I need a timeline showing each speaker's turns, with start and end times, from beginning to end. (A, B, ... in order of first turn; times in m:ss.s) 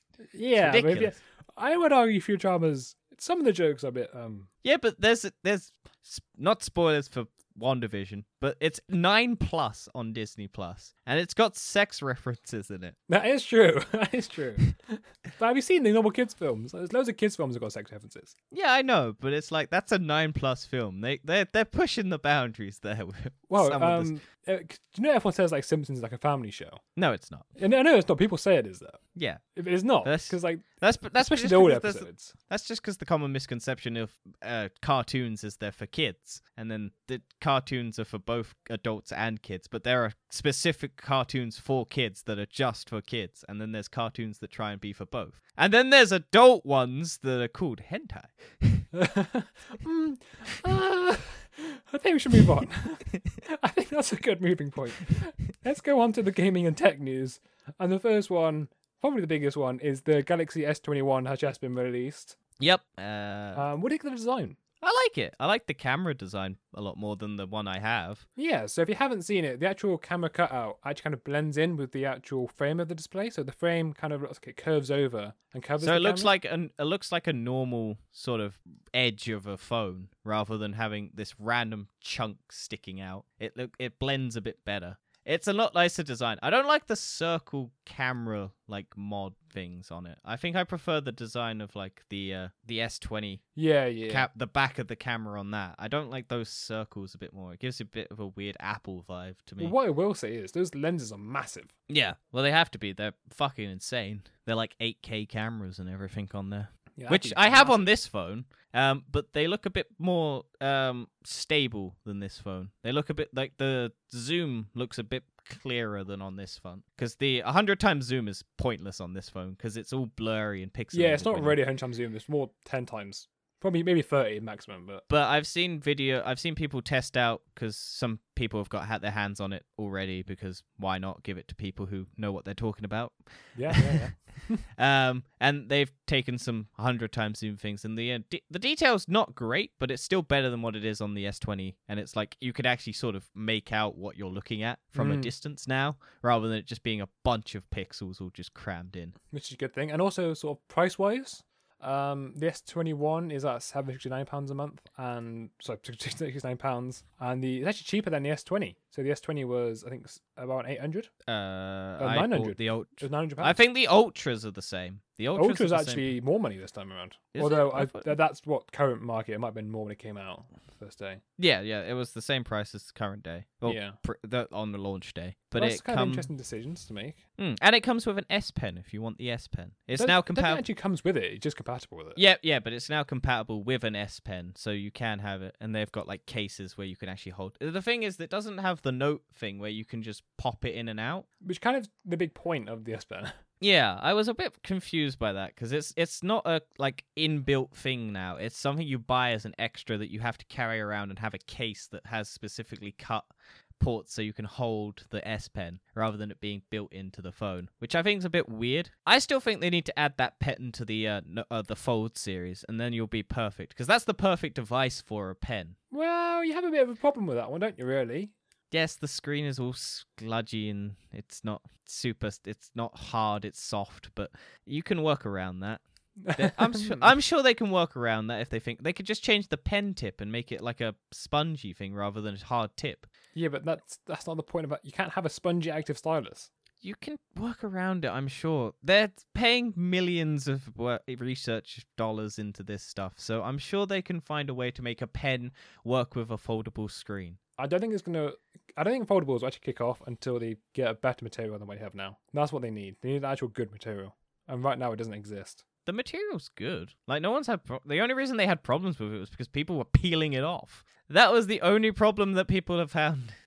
0:00.3-0:04.5 A
0:00.6-0:01.1 B
0:04.6-0:13.0 B
0:13.1-0:18.3 A
0:18.5-0:24.1 B
0:23.5-0:26.8 A
0:27.0-0:27.4 B
0:27.6-0:29.0 A
0:29.1-0:29.4 B
0:29.6-0:30.6 A
0:30.0-0:48.8 B
0:31.2-0:32.3 A
0:48.9-1:02.4 A
1:02.6-1:03.6 B
1:03.5-1:04.6 A
1:04.8-1:08.2 B
1:08.4-1:16.3 A
1:15.8-1:33.4 B
1:33.6-1:34.3 A
1:34.1-1:39.7 B
1:39.6-1:41.7 A
1:41.9-2:01.6 B
1:47.0-1:47.9 A
2:00.9-2:05.0 A
2:05.1-2:14.1 B
2:13.5-2:14.6 A
2:14.7-2:29.1 B
2:24.9-2:25.3 A
2:29.3-2:41.1 A
2:41.3-2:46.1 B
2:42.0-2:43.6 A
2:45.3-2:51.2 A
2:47.3-2:48.1 B
2:51.4-2:56.3 B
2:53.6-2:54.0 A
2:55.6-2:57.2 A
2:57.4-3:00.6 B
3:00.0-3:02.2 A
3:02.2-3:11.2 B
3:11.4-3:13.3 A
3:13.6-3:35.8 B
3:35.9-3:38.3 A
3:38.7-3:45.8 B
3:46.2-3:47.1 A
3:46.3-3:53.1 B
3:53.3-3:56.5 A
3:56.8-4:07.4 B
4:07.6-4:15.6 A
4:15.8-4:23.4 B